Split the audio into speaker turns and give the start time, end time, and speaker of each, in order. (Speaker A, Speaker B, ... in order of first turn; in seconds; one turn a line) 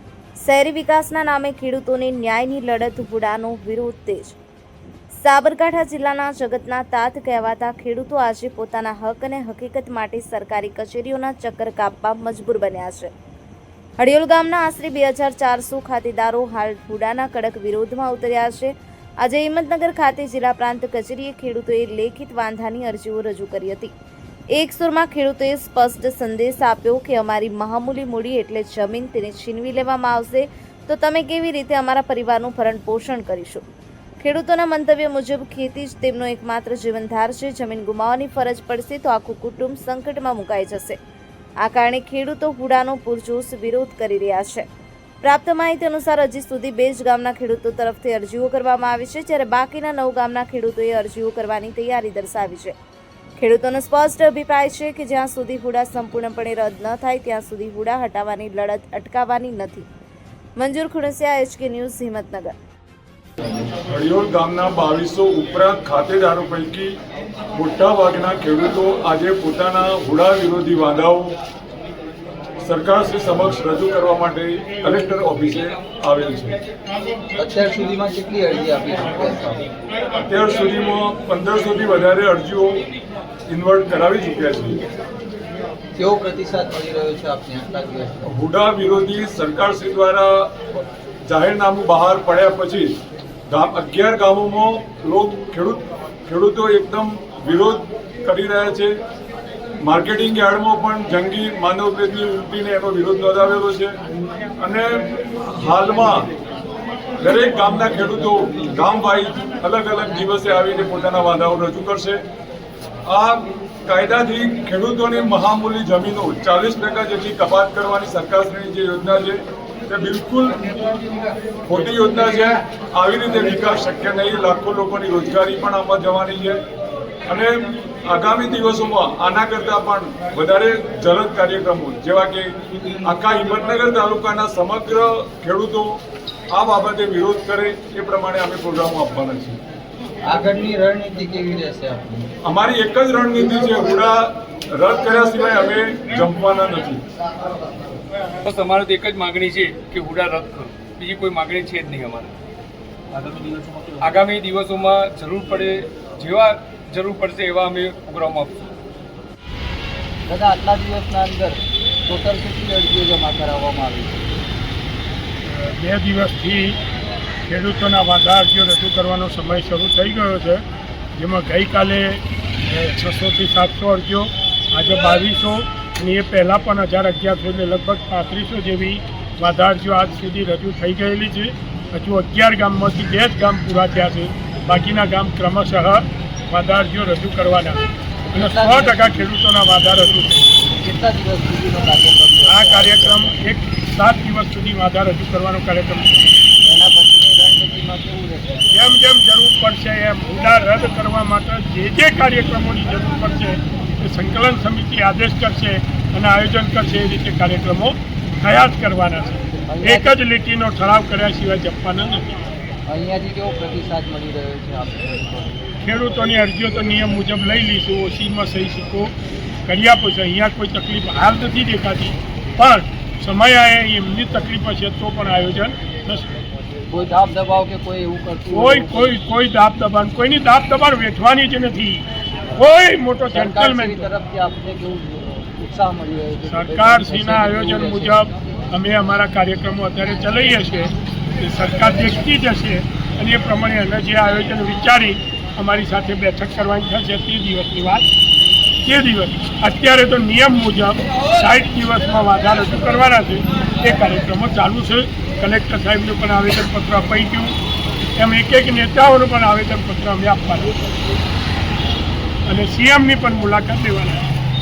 Speaker A: 0.4-4.4
Speaker A: 5.1-13.1
Speaker A: 14.0-23.9
Speaker A: 24.5-33.7
Speaker A: 34.2-41.0
Speaker A: 41.6-44.7
Speaker A: 45.2-52.8
Speaker A: 53.4-59.9
Speaker A: 60.6-62.5
Speaker B: 63.9-66.9
Speaker B: 67.5-71.4
Speaker B: 72.6-76.6
Speaker C: 77.4-79.7
Speaker B: 80.3-82.9
Speaker B: 83.5-84.8
Speaker C: 86.0-88.3
Speaker B: 88.3-90.7
Speaker B: 91.3-92.9
Speaker B: 93.5-98.9
Speaker B: 99.8-103.9
Speaker B: 104.6-106.3
Speaker B: 107.2-112.2
Speaker B: 113.1-120.6
Speaker B: 121.7-126.6
Speaker B: 127.3-132.5
Speaker B: 133.0-136.0
Speaker B: 136.5-139.6
Speaker C: 140.3-142.3
Speaker B: 142.4-147.0
Speaker D: 148.4-152.4
Speaker D: 153.1-158.7
Speaker C: 160.3-164.3
Speaker E: 165.5-166.8
Speaker E: 167.5-170.6
Speaker E: 171.2-190.5
Speaker C: 188.3-189.3
Speaker C: 190.8-193.3
Speaker E: 192.4-196.2
Speaker C: 196.6-198.7
Speaker E: 198.7-212.4
Speaker C: 209.6-210.1
Speaker C: 212.9-215.7
Speaker E: 215.8-219.1
Speaker E: 219.7-226.3
Speaker C: 226.9-229.1
Speaker E: 228.5-234.0
Speaker C: 233.3-238.2
Speaker E: 236.5-248.1
Speaker E: 248.8-257.6
Speaker E: 258.2-260.8
Speaker E: 262.5-264.3